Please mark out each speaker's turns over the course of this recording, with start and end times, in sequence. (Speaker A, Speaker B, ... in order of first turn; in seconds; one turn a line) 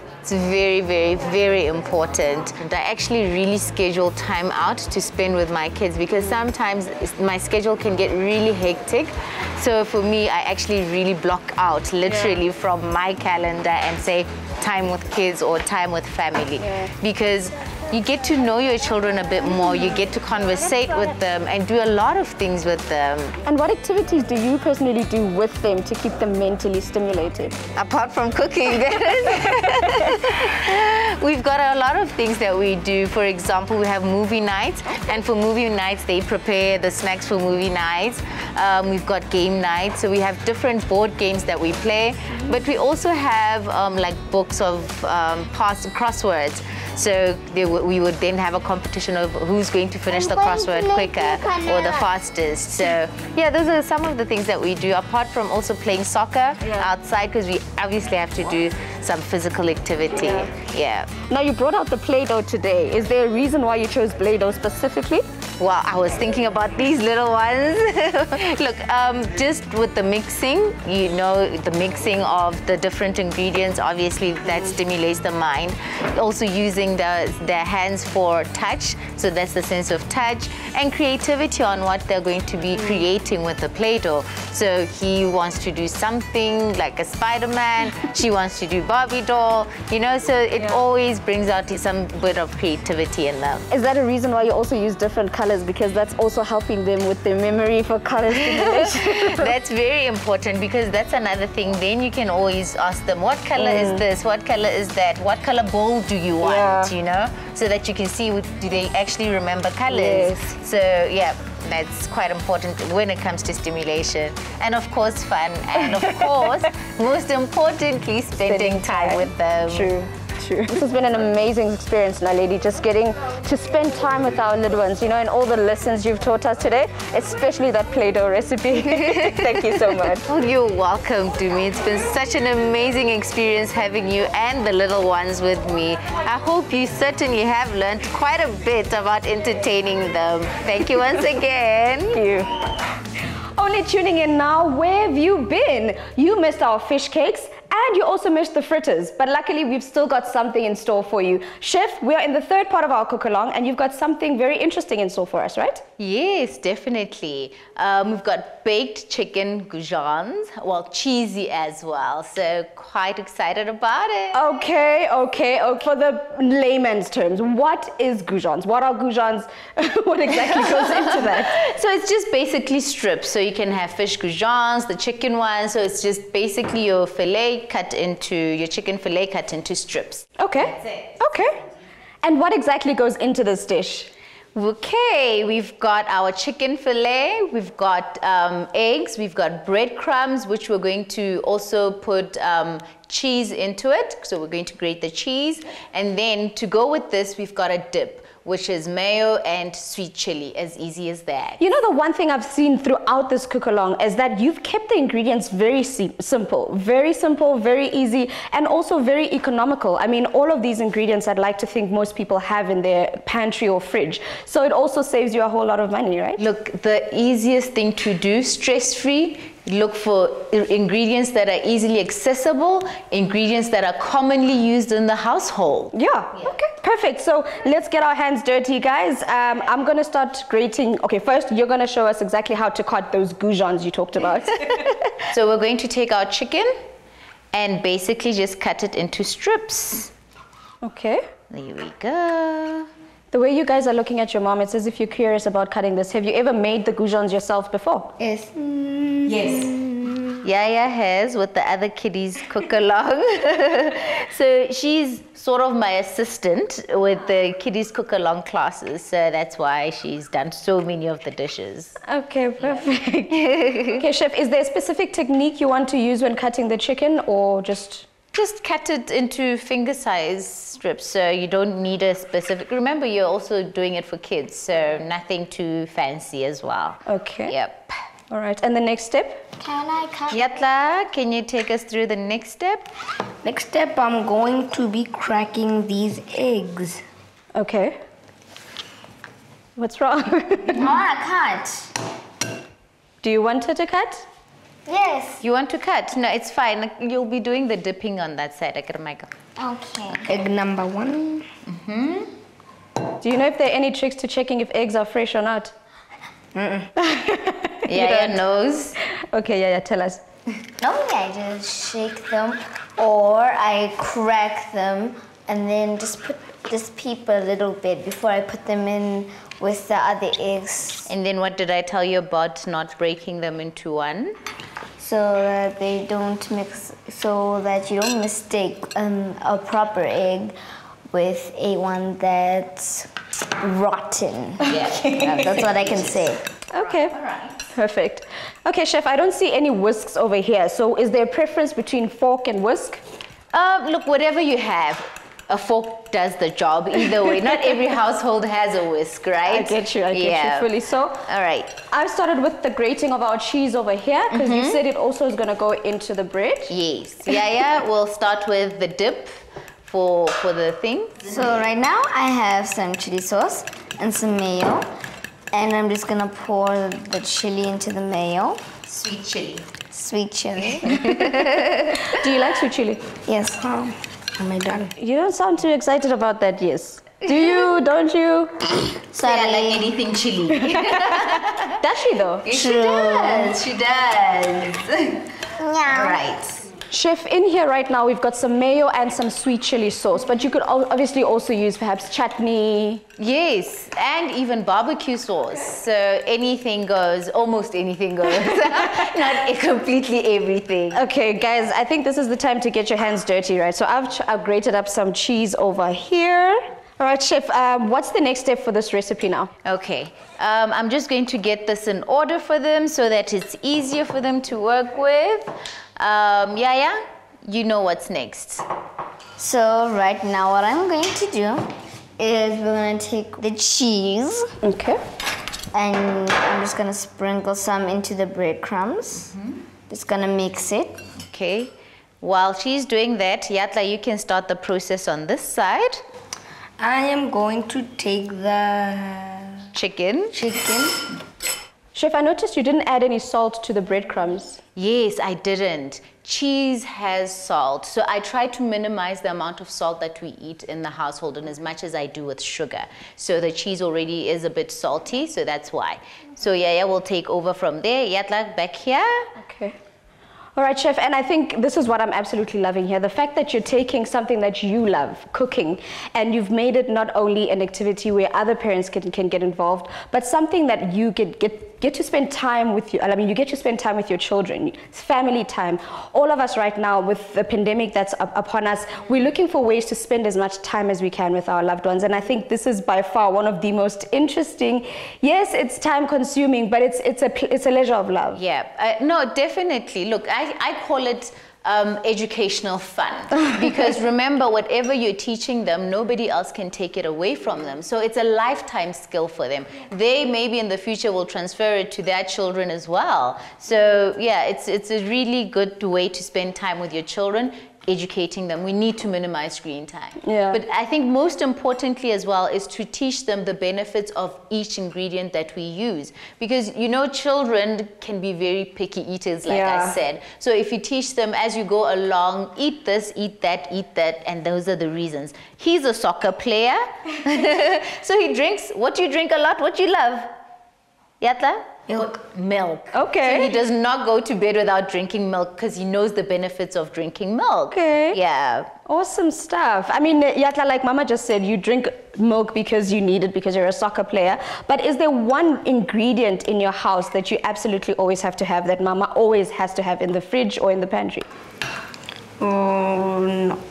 Speaker A: 0.2-23.4
Speaker B: 12.1-12.4
Speaker B: 16.6-16.9
Speaker B: 23.4-27.6
Speaker A: 27.8-61.1
Speaker C: 50.1-52.1
Speaker B: 60.2-60.5
Speaker B: 61.3-65.2
Speaker A: 65.6-93.7
Speaker B: 82.8-83.0
Speaker B: 93.7-99.5
Speaker A: 98.4-119.9
Speaker B: 103.6-104.0
Speaker B: 106.4-106.9
Speaker B: 109.9-110.6
Speaker B: 118.4-130.2
Speaker A: 128.8-142.2
Speaker B: 142.1-142.5
Speaker B: 143.6-155.8
Speaker A: 156.0-164.4
Speaker B: 164.3-171.5
Speaker A: 170.5-181.2
Speaker B: 180.4-181.6
Speaker B: 182.2-184.1
Speaker A: 184.6-201.6
Speaker B: 201.6-216.4
Speaker A: 216.4-225.9
Speaker B: 225.9-234.9
Speaker A: 235.3-236.7
Speaker A: 237.5-240.1
Speaker B: 240.8-241.2
Speaker A: 241.5-242.9
Speaker B: 243.3-248.1
Speaker C: 248.2-250.4
Speaker A: 249.3-249.7
Speaker A: 250.4-262.0
Speaker B: 262.1-268.1
Speaker A: 262.6-262.9
Speaker A: 263.5-263.9
Speaker A: 268.3-277.9
Speaker B: 277.1-277.6
Speaker B: 278.3-279.4
Speaker C: 279.6-280.5
Speaker A: 280.3-282.9
Speaker C: 283.4-287.0
Speaker B: 287.6-288.0
Speaker B: 289.8-290.9
Speaker C: 290.7-291.9
Speaker B: 293.2-294.3
Speaker C: 294.9-295.4
Speaker A: 295.4-299.3
Speaker C: 299.6-301.5
Speaker A: 301.7-302.3
Speaker B: 303.2-305.7
Speaker C: 306.6-306.9
Speaker B: 307.0-308.4
Speaker A: 307.9-309.0
Speaker B: 309.3-310.2
Speaker C: 310.8-321.1
Speaker A: 321.1-324.4
Speaker C: 325.0-330.6
Speaker C: 331.1-336.4
Speaker A: 334.6-337.6
Speaker B: 336.7-337.2
Speaker B: 337.7-343.0
Speaker A: 343.5-350.7
Speaker B: 349.5-351.2
Speaker A: 351.3-351.8
Speaker B: 351.9-356.7
Speaker A: 354.3-354.8
Speaker A: 356.7-361.6
Speaker C: 361.2-364.9
Speaker C: 365.5-368.6
Speaker A: 368.9-369.7
Speaker C: 369.9-371.4
Speaker A: 370.8-372.0
Speaker B: 372.0-373.0
Speaker C: 373.3-374.9
Speaker B: 375.0-378.7
Speaker C: 379.1-379.9
Speaker A: 379.2-381.8
Speaker B: 380.7-382.4
Speaker A: 382.4-385.3
Speaker C: 382.5-383.6
Speaker C: 385.6-386.2
Speaker A: 385.9-386.6
Speaker B: 386.9-393.0
Speaker A: 393.2-401.0
Speaker B: 400.9-409.5
Speaker A: 409.6-418.6
Speaker C: 419.4-421.7
Speaker C: 422.2-424.5
Speaker B: 424.6-425.0
Speaker C: 425.7-429.3
Speaker C: 429.9-431.0
Speaker A: 431.2-436.0
Speaker C: 436.8-439.7
Speaker A: 439.7-440.4
Speaker C: 440.4-441.1
Speaker B: 441.9-444.6
Speaker A: 444.8-459.3
Speaker B: 459.4-459.8
Speaker B: 460.6-488.4
Speaker A: 488.3-530.3
Speaker B: 510.2-510.6
Speaker B: 519.5-520.0
Speaker A: 531.2-538.7
Speaker B: 532.9-533.5
Speaker B: 537.7-538.2
Speaker B: 538.9-551.3
Speaker C: 552.4-553.5